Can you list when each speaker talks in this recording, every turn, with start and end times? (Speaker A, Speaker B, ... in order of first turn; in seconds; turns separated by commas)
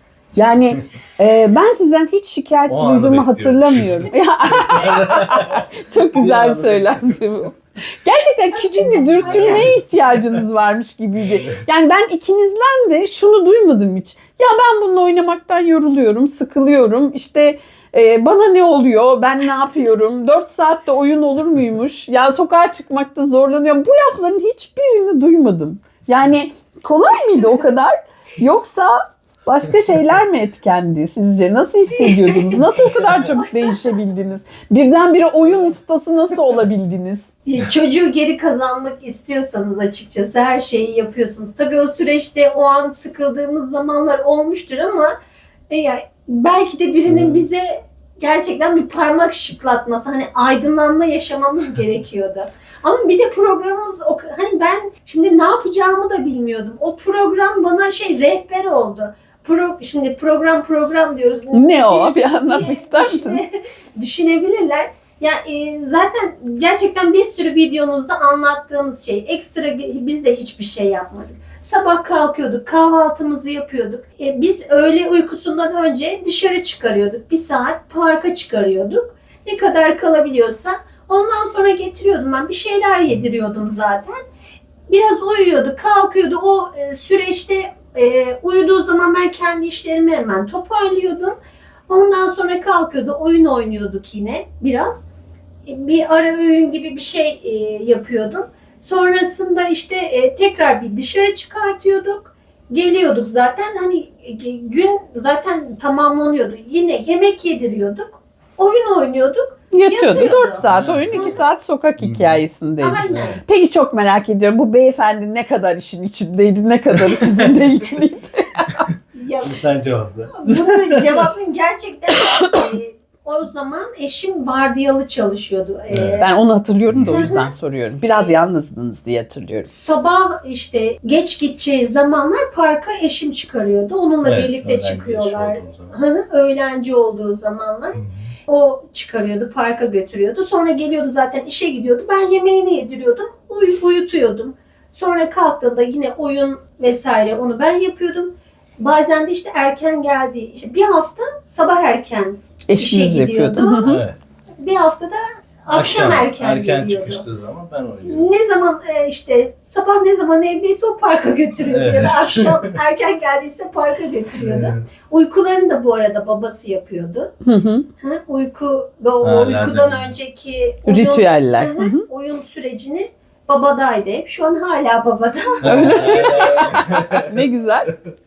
Speaker A: 0.3-37.3, Speaker B: 2.7-7.2, Speaker C: 8.5-9.7, Speaker B: 9.2-9.7, Speaker C: 32.0-32.6, Speaker C: 33.4-33.9, Speaker C: 37.5-45.1, Speaker C: 45.7-84.2, Speaker B: 47.1-47.5, Speaker A: 61.5-63.4, Speaker C: 84.9-91.4, Speaker C: 91.9-95.0, Speaker C: 95.7-111.4, Speaker A: 109.7-118.9, Speaker B: 110.2-111.4, Speaker B: 112.0-112.4, Speaker C: 112.8-113.4, Speaker B: 113.1-113.4, Speaker C: 119.1-119.6, Speaker B: 119.4-121.3, Speaker C: 120.3-126.3, Speaker B: 125.9-126.2, Speaker A: 126.2-129.7, Speaker B: 126.9-127.3, Speaker C: 127.1-127.5, Speaker C: 129.7-154.0, Speaker B: 134.2-136.0, Speaker B: 137.9-138.3, Speaker A: 152.7-154.0, Speaker B: 153.8-154.2, Speaker C: 154.6-157.2, Speaker B: 155.7-158.3, Speaker C: 158.0-167.3, Speaker B: 161.6-162.7, Speaker B: 164.4-164.8, Speaker A: 167.4-167.9, Speaker C: 168.0-176.6, Speaker B: 169.2-170.1, Speaker A: 170.9-172.1, Speaker B: 175.6-177.4, Speaker A: 175.6-177.9